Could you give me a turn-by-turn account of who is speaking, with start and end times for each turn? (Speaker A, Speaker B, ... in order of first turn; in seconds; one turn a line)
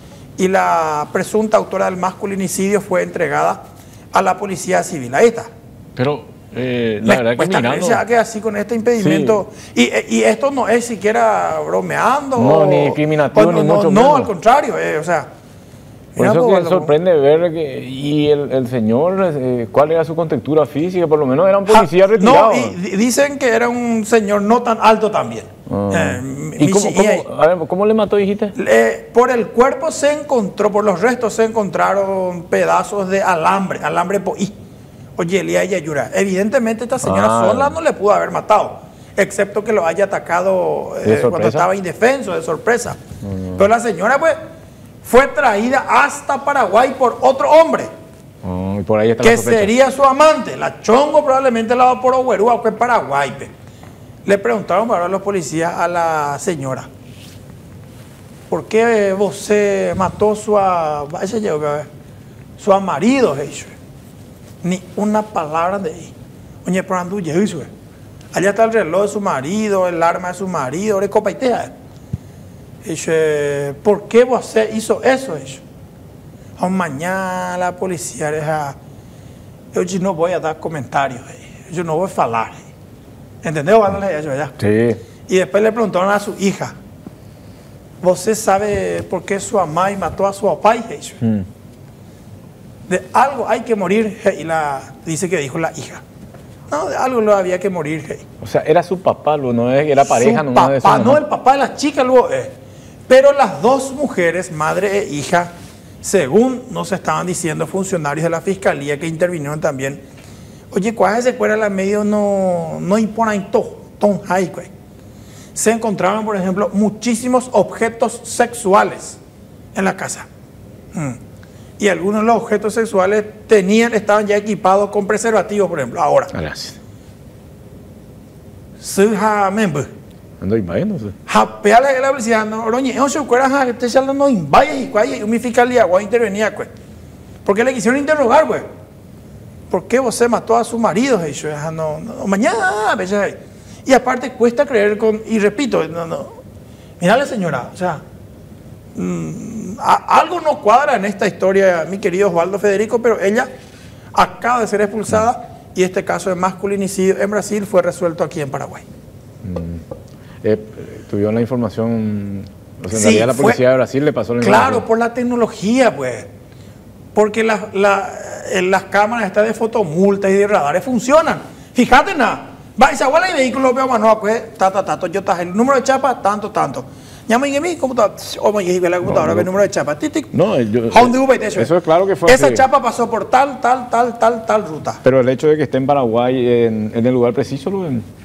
Speaker A: 0.4-3.6
Speaker A: 4.1-5.5
Speaker B: 6.0-8.0
Speaker A: 7.0-15.3
Speaker B: 9.0-9.4
Speaker B: 12.4-14.3
Speaker A: 16.2-16.9
Speaker B: 16.2-22.8
Speaker A: 21.7-27.2
Speaker B: 25.7-28.6
Speaker A: 28.6-34.5
Speaker A: 35.2-43.0
Speaker B: 37.0-37.8
Speaker B: 41.0-41.6
Speaker B: 43.2-43.6
Speaker A: 43.6-44.4
Speaker A: 45.0-47.9
Speaker B: 48.4-49.7
Speaker A: 49.2-53.5
Speaker A: 54.3-56.9
Speaker A: 58.5-61.9
Speaker A: 62.6-63.7
Speaker A: 64.6-66.1
Speaker A: 66.7-67.7
Speaker A: 68.3-71.7
Speaker A: 72.8-75.6
Speaker A: 76.6-78.8
Speaker A: 79.7-82.7
Speaker A: 83.4-84.6
Speaker B: 84.6-85.0
Speaker A: 85.3-86.8
Speaker A: 88.0-91.2
Speaker A: 92.9-96.0
Speaker A: 96.7-98.3
Speaker B: 98.4-101.2
Speaker A: 100.0-102.5
Speaker A: 103.1-105.5
Speaker A: 106.0-110.0
Speaker A: 110.7-114.7
Speaker A: 115.5-119.2
Speaker A: 119.8-120.3
Speaker A: 121.8-126.3
Speaker B: 126.3-126.8
Speaker A: 128.8-129.9
Speaker B: 130.4-131.2
Speaker A: 131.3-136.7
Speaker A: 137.4-138.7
Speaker A: 139.7-146.4
Speaker A: 147.0-148.0
Speaker A: 148.9-153.5
Speaker A: 154.2-158.8
Speaker B: 159.4-159.8
Speaker B: 160.4-164.8
Speaker A: 162.9-163.6
Speaker A: 164.4-166.3
Speaker A: 167.2-180.3
Speaker B: 180.3-182.7
Speaker A: 180.9-181.7
Speaker A: 182.3-185.0
Speaker B: 185.0-188.1